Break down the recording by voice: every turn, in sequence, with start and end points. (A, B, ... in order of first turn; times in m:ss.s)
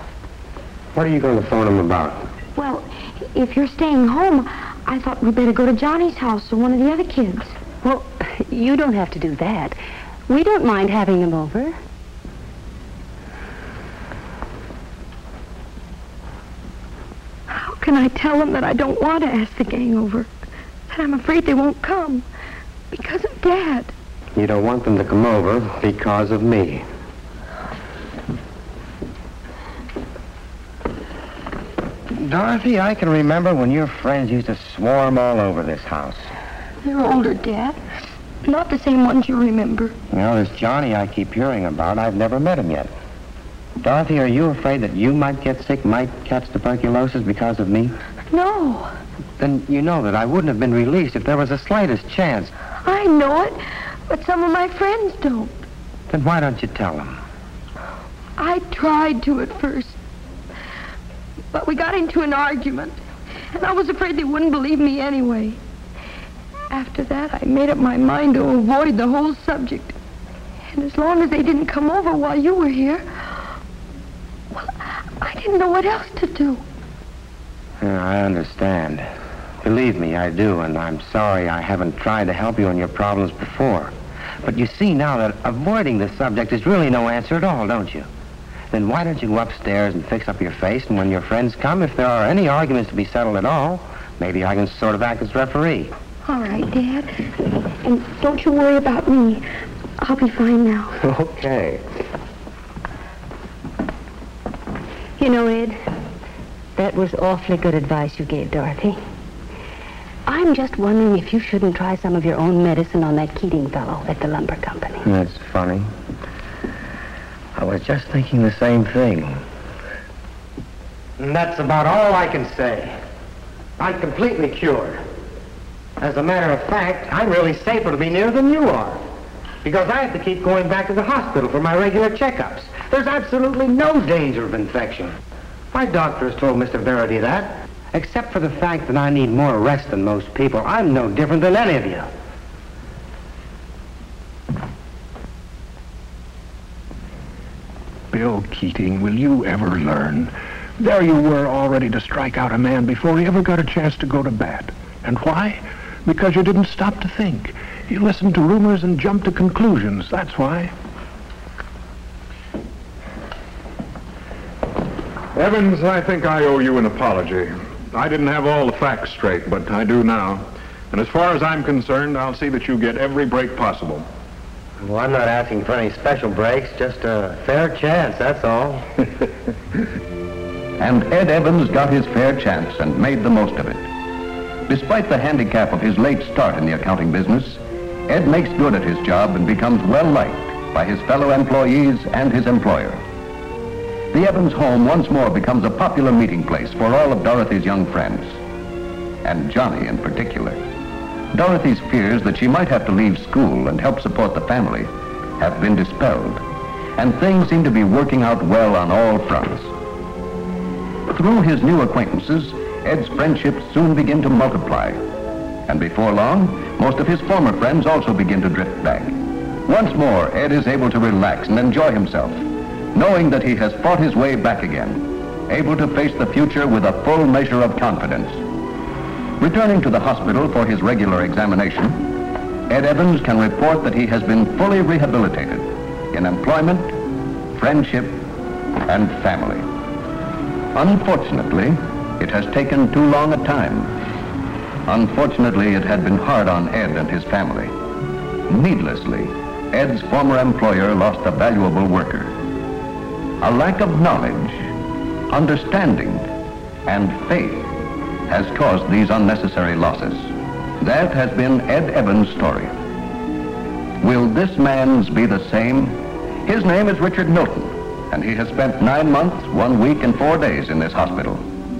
0:00.9-0:02.2 A
0:02.6-0:07.6 B
0:07.8-0:11.8 C
0:17.5-0:20.3 B
0:20.9-0:22.3 B
0:22.9-0:23.9 B
0:24.4-0:26.8 A
0:32.2-0:36.3 A
0:36.8-0:37.8 B
0:38.4-0:39.9 B
0:40.1-0:42.9 A
0:43.8-0:47.9 A
0:48.3-0:48.9 B
0:49.4-0:52.5 A
0:52.8-0:53.6 B
0:54.1-0:55.6 B
0:56.1-0:57.2 A
0:58.4-1:00.0 B
1:01.5-1:03.0 B
1:03.5-1:05.6 B
1:06.7-1:10.0 B
1:10.7-1:13.1 B
1:15.2-1:16.6 B
1:17.8-1:19.0 A
1:19.6-1:28.1 A
1:28.7-1:35.9 A
1:36.2-1:39.4 B
1:40.0-1:41.0 B
1:41.0-1:41.8 A
1:45.2-1:45.8 C
1:46.8-1:49.0 C
1:50.3-1:55.0 C
1:55.0-1:55.9 A
1:57.6-1:59.4 A
2:01.2-2:02.9 A
2:03.8-2:05.0 A
2:06.0-2:09.0 A
2:09.6-2:15.1 A
2:15.7-2:22.1 A
2:28.1-2:40.7 D
2:45.3-2:54.1 D
2:54.8-2:58.9 A
3:00.8-3:03.9 E
3:04.7-3:13.0 E
3:14.1-3:18.4 E
3:19.2-3:20.6 E
3:21.3-3:26.4 E
3:27.0-3:29.7 E
3:31.1-3:35.0 E
3:35.7-3:39.2 E
3:39.7-3:48.4 E
3:49.4-3:52.0 E
3:52.7-3:56.9 E
3:57.5-3:58.2 E
3:58.9-3:59.7 E
4:00.8-4:03.9 E
4:04.9-4:07.7 E
4:08.5-4:12.3 E
4:13.4-4:14.7 E
4:15.3-4:16.3 E
4:16.9-4:17.7 E
4:18.3-4:22.7 E
4:24.0-4:31.4 E